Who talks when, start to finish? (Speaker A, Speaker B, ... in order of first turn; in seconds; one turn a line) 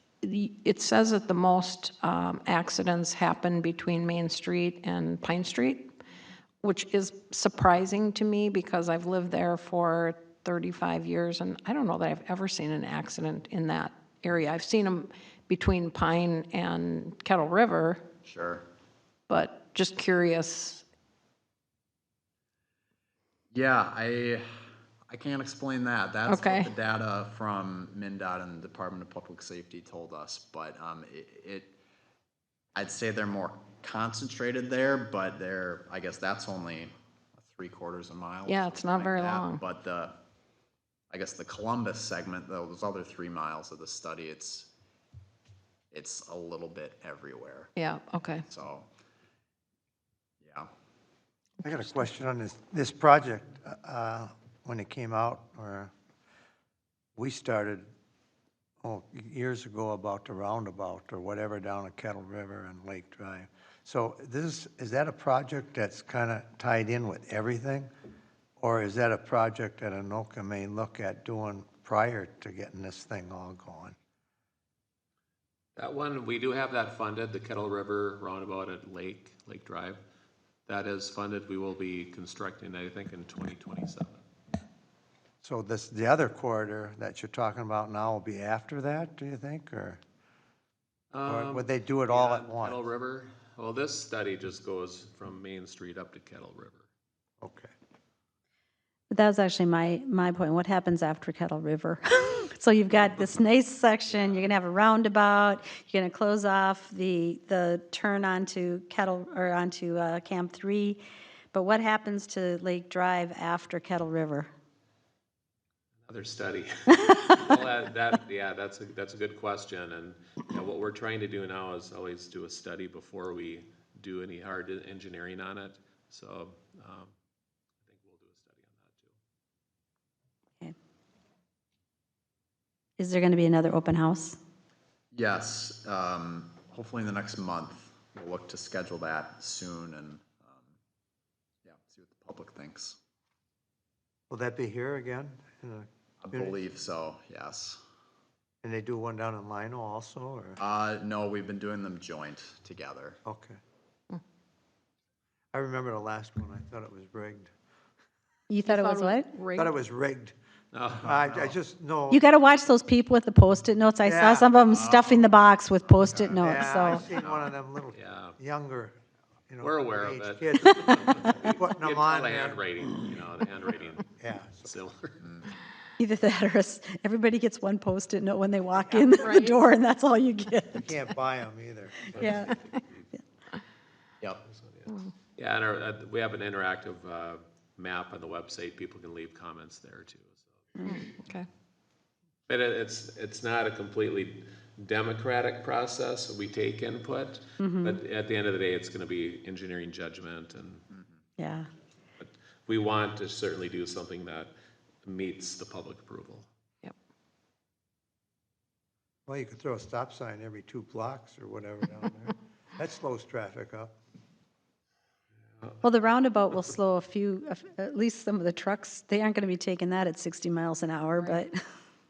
Speaker A: 0.2-5.9
Speaker A: 6.6-18.1
Speaker B: 18.2-18.7
Speaker A: 19.3-20.9
Speaker B: 23.5-31.7
Speaker A: 26.3-26.7
Speaker B: 32.8-40.2
Speaker A: 38.5-39.6
Speaker B: 41.1-44.7
Speaker B: 45.9-47.7
Speaker A: 47.8-48.5
Speaker B: 48.5-48.9
Speaker B: 50.4-50.7
Speaker C: 51.6-55.9
Speaker C: 57.2-57.9
Speaker C: 58.8-67.9
Speaker C: 68.6-74.0
Speaker D: 75.8-80.0
Speaker D: 80.7-84.2
Speaker C: 85.4-90.0
Speaker D: 91.1-96.9
Speaker C: 91.3-92.8
Speaker C: 97.4-97.7
Speaker E: 99.1-111.0
Speaker D: 104.1-104.5
Speaker E: 111.5-114.5
Speaker D: 116.1-127.1
Speaker D: 127.9-129.1
Speaker E: 133.0-134.4
Speaker B: 135.1-140.7
Speaker B: 141.7-143.0
Speaker C: 144.3-146.6
Speaker B: 146.2-147.8
Speaker C: 148.6-150.6
Speaker B: 150.6-153.2
Speaker C: 153.2-153.6
Speaker C: 155.5-157.5
Speaker E: 158.5-159.3
Speaker A: 158.7-159.7
Speaker C: 159.6-160.3
Speaker D: 160.7-161.6
Speaker C: 161.0-162.2
Speaker E: 162.1-167.1
Speaker C: 164.0-164.6
Speaker B: 164.7-165.4
Speaker B: 165.9-166.3
Speaker C: 166.0-169.0
Speaker D: 167.2-168.4
Speaker C: 169.5-172.6
Speaker D: 169.6-175.3
Speaker C: 174.2-174.7
Speaker E: 176.0-181.0
Speaker A: 179.0-179.6
Speaker C: 180.8-182.2
Speaker E: 182.1-182.6
Speaker D: 182.1-183.1
Speaker D: 184.4-190.4
Speaker A: 190.8-191.5
Speaker D: 192.5-200.8
Speaker E: 197.6-198.0
Speaker E: 201.4-201.7
Speaker D: 202.2-204.5
Speaker D: 205.0-206.5
Speaker C: 209.3-213.9
Speaker E: 215.8-221.6